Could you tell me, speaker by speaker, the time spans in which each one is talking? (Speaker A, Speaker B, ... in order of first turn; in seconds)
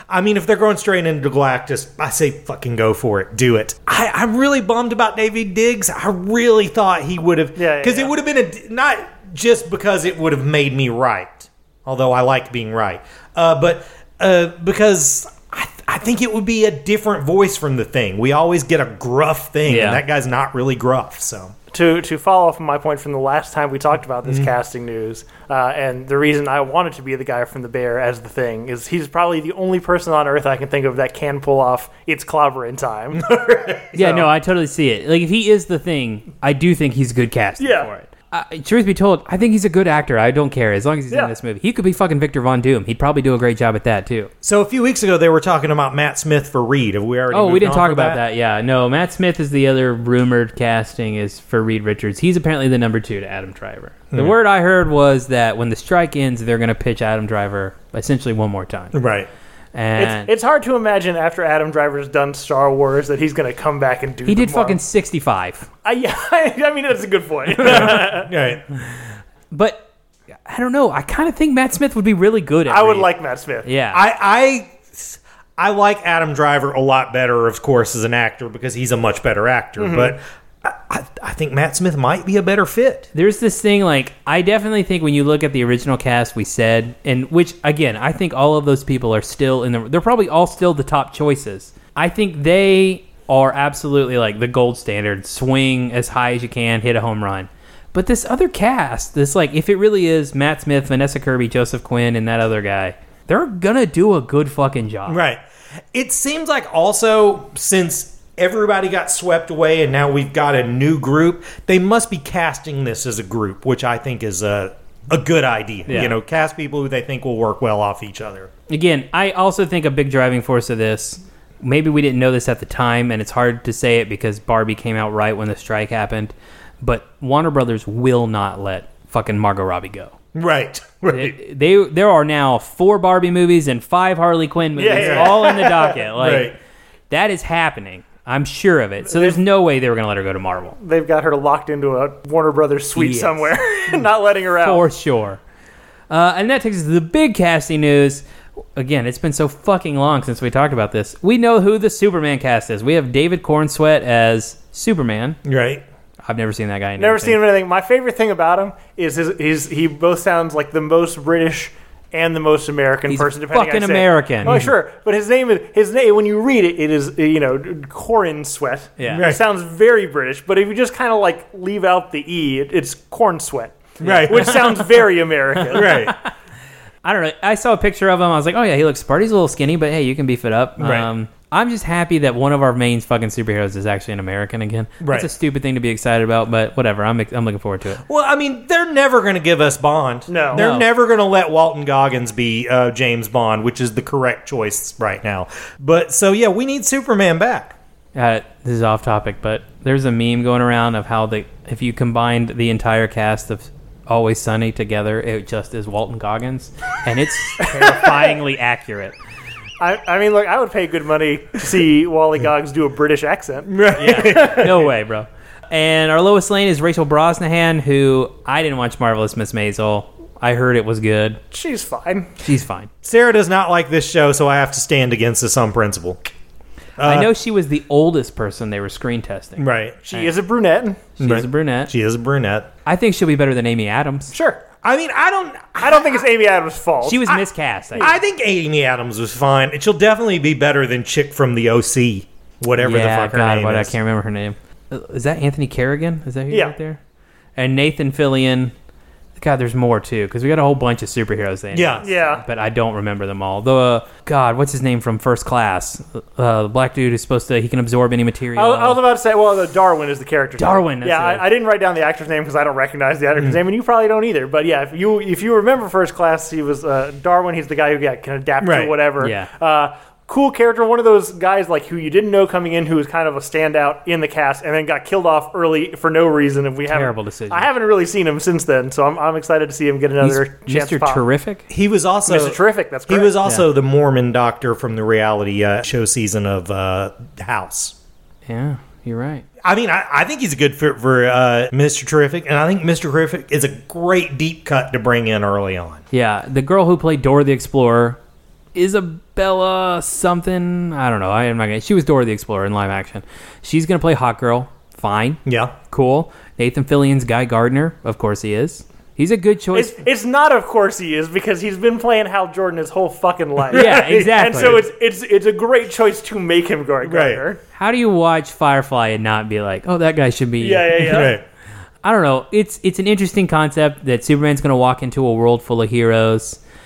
Speaker A: 0.1-21.5, 33.1-34.2, 44.4-48.2, 58.9-59.3, 67.6-68.6, 73.9-83.1, 105.1-105.4, 105.9-118.5, 130.3-131.3, 134.9-136.6, 155.4-155.8, 164.4-164.7, 169.1-169.4, 174.0-174.6, 175.7-176.1, 180.8-181.1, 185.0-185.3, 188.1-197.8, 213.7-214.9, 223.0-226.2, 227.0-227.3, 229.6-230.0, 231.2-232.7, 234.8-236.2, 238.0-243.9, 251.7-252.1, 268.6-268.9, 281.7-287.9, 289.6-296.0, 305.4-305.7, 313.7-314.8, 317.0-317.4, 321.0-321.4
Speaker B: 7.5-8.1, 21.7-33.3, 37.6-37.9, 60.0-64.8, 65.8-68.3, 72.7-73.7, 79.8-80.2, 134.8-135.9, 139.1-139.4, 140.8-144.8, 157.0-176.1, 190.3-190.6, 209.8-214.7, 221.5-222.3, 230.1-231.0, 234.3-234.6, 235.8-237.4, 252.0-252.4, 258.6-281.2, 282.2-283.4, 309.7-317.6, 320.6-321.4
Speaker C: 19.6-20.0, 33.9-44.3, 47.3-59.0, 59.7-60.3, 64.2-65.7, 67.6-68.0, 69.5-69.9, 70.4-73.1, 73.6-74.0, 83.1-105.2, 115.9-116.2, 118.7-130.2, 131.1-136.5, 137.1-140.8, 142.9-143.5, 144.6-145.4, 146.1-148.2, 148.8-155.4, 156.2-157.4, 163.1-164.6, 169.0-169.3, 174.0-174.8, 175.6-176.3, 177.0-188.0, 190.5-190.9, 198.1-209.1, 213.9-221.4, 222.4-222.9, 227.0-230.3, 231.2-231.9, 232.8-234.3, 237.0-238.1, 242.8-247.0, 247.6-248.7, 249.4-259.0, 260.6-261.4, 269.2-269.5, 276.9-277.7, 280.2-281.6, 288.5-289.4, 296.1-298.2, 298.7-310.0, 313.7-314.8, 317.7-321.3, 322.0-326.6